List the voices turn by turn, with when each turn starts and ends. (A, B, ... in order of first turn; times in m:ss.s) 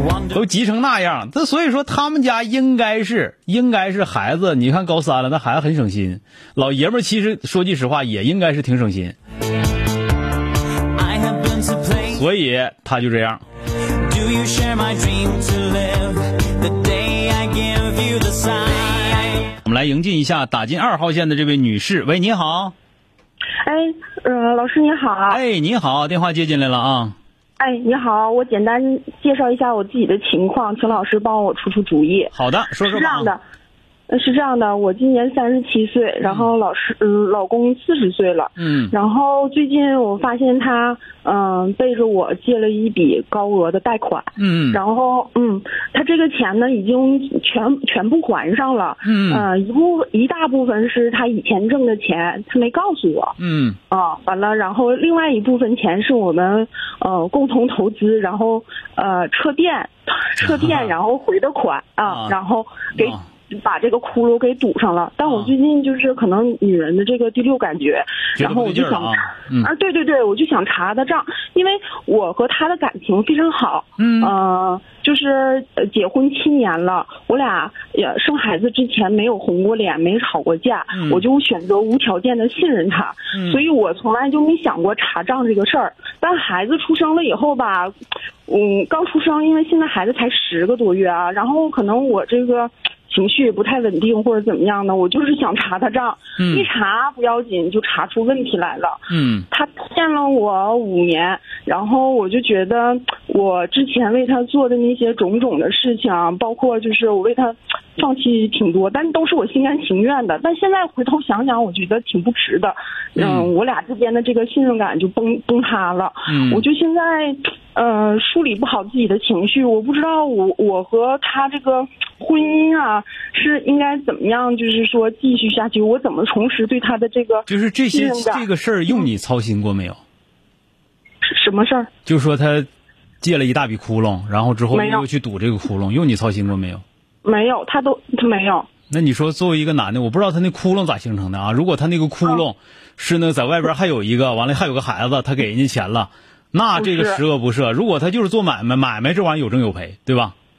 0:00.2-0:09.2 A
0:11.7-0:12.0 B
0:12.0-0:13.4 A
0:14.1-0:19.1 B
0:19.5-0:22.8 A
0:23.6-0:25.4 C
0:25.3-0:27.1 A
0:27.6-0:33.4 C
0:32.3-0:33.3 A
0:34.1-0:53.4 C
0:36.2-0:36.5 A
0:38.6-0:38.9 A
0:44.4-0:44.8 A
0:49.0-0:49.5 A
0:53.4-0:53.8 A
0:53.9-1:27.9 C
1:00.4-1:00.9 A
1:02.0-1:02.3 A
1:05.2-1:05.5 A
1:08.4-1:09.7 A
1:14.0-1:14.3 A
1:20.9-1:21.2 A
1:23.3-1:23.6 A
1:28.5-1:39.0 C
1:36.4-1:36.7 A
1:39.1-1:39.4 A
1:39.5-2:09.1 C
1:53.2-1:53.5 A
1:56.3-1:56.6 A
2:07.5-2:10.0 A
2:11.2-2:11.9 C
2:12.0-2:12.7 A
2:13.2-2:16.8 A
2:14.7-2:15.0 C
2:17.2-2:18.7 C
2:18.9-2:30.4 A
2:26.7-2:27.2 C